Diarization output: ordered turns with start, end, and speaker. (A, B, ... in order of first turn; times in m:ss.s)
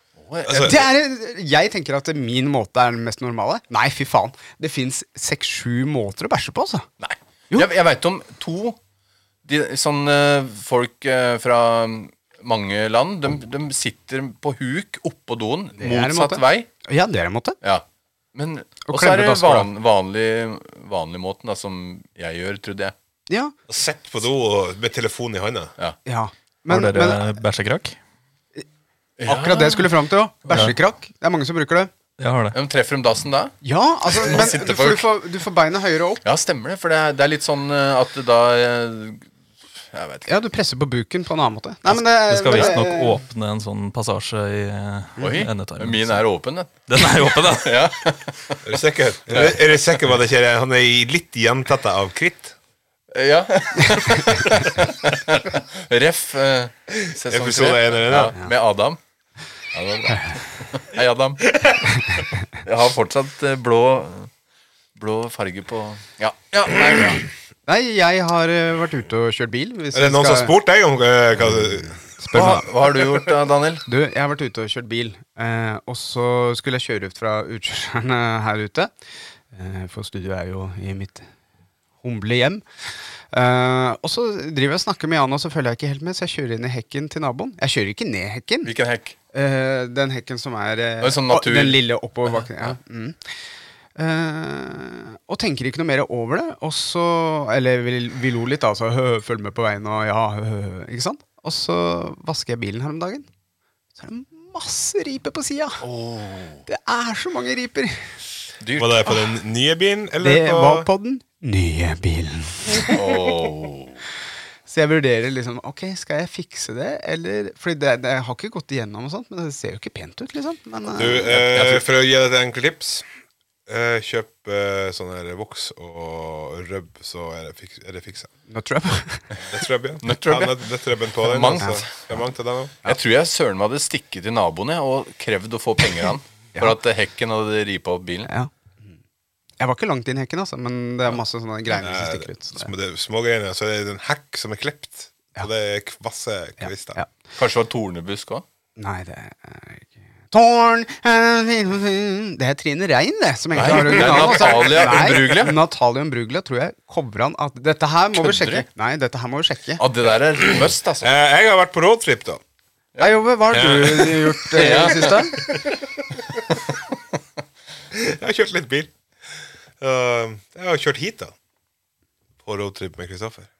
0:00.2-0:00.9 A
0:00.4-0:00.8 B
0:00.6-0:06.9 C
0:07.0-0:08.8 A
0:09.4-0:16.7 A
0:15.8-0:17.6 C
0:17.6-0:22.9 A
0:18.8-0:19.7 C
0:23.7-0:25.7 B
0:26.0-0:27.4 C
0:26.7-0:28.0 D
0:29.2-0:29.9 A
0:29.2-0:31.9 C
0:32.2-0:32.6 D
0:32.5-0:33.5 A
0:33.6-0:36.2 C
0:34.0-0:35.1 A
0:36.2-0:39.3 A
0:39.9-0:40.3 A
0:40.3-0:43.2 C
0:41.9-0:46.2 D
0:45.2-0:49.8 A
0:46.9-0:47.9 D
0:48.6-0:52.5 B
0:53.1-0:59.0 A
0:57.0-0:58.3 B
0:59.7-1:01.6 A
1:02.6-1:04.3 A
1:05.0-1:07.3 A
1:07.6-1:10.5 C
1:09.9-1:12.1 B
1:11.5-1:12.7 C
1:12.3-1:13.8 A
1:13.8-1:18.9 C
1:19.5-1:21.3 C
1:22.0-1:22.6 C
1:23.3-1:28.7 C
1:28.6-1:29.2 A
1:29.3-1:33.2 C
1:31.0-1:31.8 A
1:32.4-1:32.7 A
1:34.0-1:43.3 C
1:44.0-1:45.8 C
1:45.8-1:46.6 A
1:46.6-1:48.1 C
1:48.6-1:49.2 A
1:48.8-1:50.9 B
1:50.2-1:53.2 C
1:52.9-1:54.0 A
1:54.7-2:01.3 C
2:00.9-2:03.0 B
2:01.1-2:01.8 A
2:03.7-2:08.3 B
2:08.5-2:09.3 C
2:09.4-2:12.9 B
2:10.0-2:10.6 A
2:11.2-2:12.2 A
2:12.8-2:18.3 A
2:19.6-2:22.7 C
2:21.7-2:27.0 B
2:26.6-2:27.1 C
2:27.3-2:28.4 A
2:28.8-2:39.8 C
2:33.5-2:35.6 A
2:34.0-2:34.4 B
2:38.1-2:38.6 A
2:39.8-2:41.1 A
2:41.0-2:42.4 B
2:43.0-2:45.4 C
2:43.5-2:46.4 B
2:44.5-2:45.5 A
2:47.9-2:48.9 B
2:49.8-2:51.3 B
2:52.4-2:53.5 B